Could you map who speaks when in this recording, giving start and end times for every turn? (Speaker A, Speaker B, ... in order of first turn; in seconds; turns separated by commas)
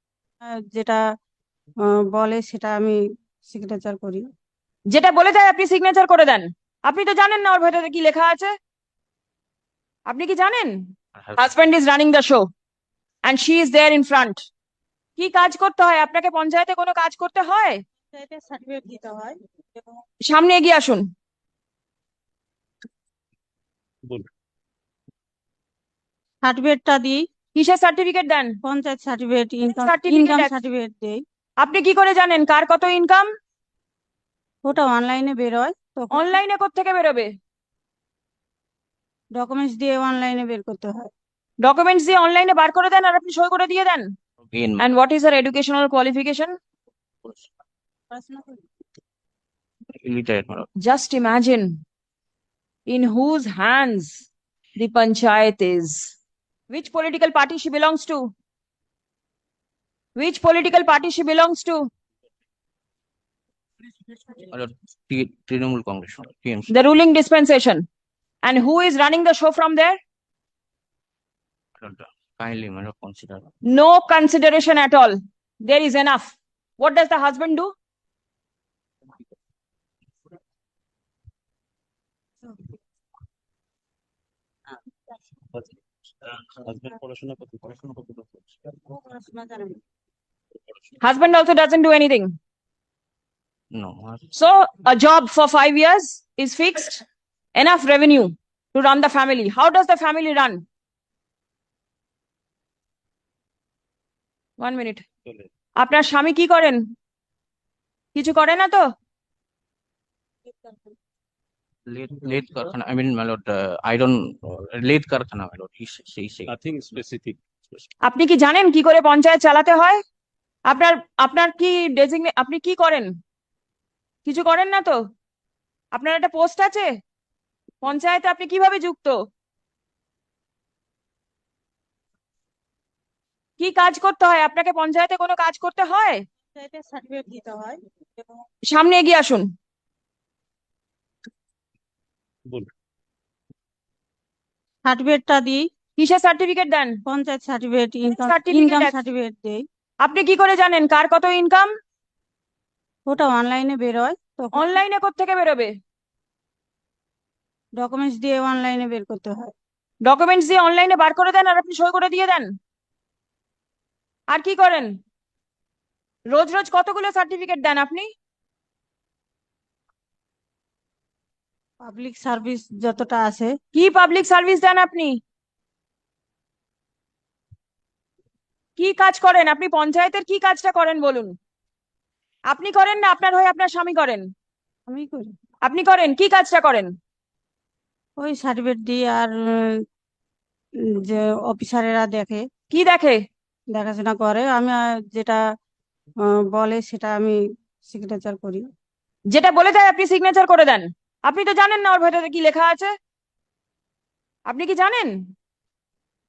Speaker A: 0.7-1.0, Speaker A: 2.1-4.2, Speaker B: 4.9-8.5, Speaker B: 10.1-10.8, Speaker B: 11.4-12.4, Speaker B: 13.2-14.4, Speaker B: 15.2-17.8, Speaker A: 18.1-19.3, Speaker B: 20.3-21.0, Speaker A: 26.4-27.2, Speaker B: 27.5-28.5, Speaker A: 28.6-31.2, Speaker B: 29.7-30.5, Speaker B: 31.6-33.3, Speaker A: 34.6-36.3, Speaker B: 36.1-37.3, Speaker A: 39.4-41.1, Speaker B: 41.6-44.1, Speaker C: 44.5-44.8, Speaker B: 44.8-46.5, Speaker A: 48.1-48.6, Speaker C: 49.9-50.7, Speaker B: 50.8-51.7, Speaker B: 52.9-54.2, Speaker B: 54.8-56.1, Speaker B: 56.7-58.3, Speaker B: 60.1-61.9, Speaker C: 64.3-66.7, Speaker B: 66.7-67.8, Speaker B: 68.4-70.0, Speaker C: 71.8-73.5, Speaker B: 73.7-77.7, Speaker A: 82.4-82.7, Speaker D: 86.3-88.4, Speaker A: 88.9-89.8, Speaker B: 91.0-92.3, Speaker C: 93.7-94.2, Speaker B: 94.3-97.0, Speaker B: 97.5-100.6, Speaker B: 104.6-105.0, Speaker B: 105.8-106.8, Speaker B: 108.1-108.8, Speaker C: 111.9-116.5, Speaker D: 116.5-117.4, Speaker B: 118.0-120.0, Speaker B: 120.7-123.1, Speaker B: 124.2-125.0, Speaker B: 125.9-126.9, Speaker B: 127.8-129.2, Speaker B: 133.6-136.2, Speaker A: 136.6-137.8, Speaker B: 138.7-139.5, Speaker A: 144.8-145.7, Speaker B: 146.0-147.0, Speaker A: 147.1-149.6, Speaker B: 148.1-149.0, Speaker B: 150.0-151.7, Speaker A: 153.1-154.7, Speaker B: 154.5-155.7, Speaker A: 157.8-159.5, Speaker B: 160.0-162.5, Speaker B: 164.3-164.9, Speaker B: 166.3-168.1, Speaker A: 171.8-173.5, Speaker B: 173.7-175.2, Speaker B: 178.8-181.3, Speaker B: 182.5-184.3, Speaker A: 184.9-185.3, Speaker B: 185.6-186.9, Speaker A: 188.2-189.7, Speaker A: 191.0-192.4, Speaker B: 192.7-193.2, Speaker A: 193.7-195.4, Speaker A: 196.5-197.4, Speaker A: 197.9-198.6, Speaker B: 199.3-202.9, Speaker B: 204.5-205.2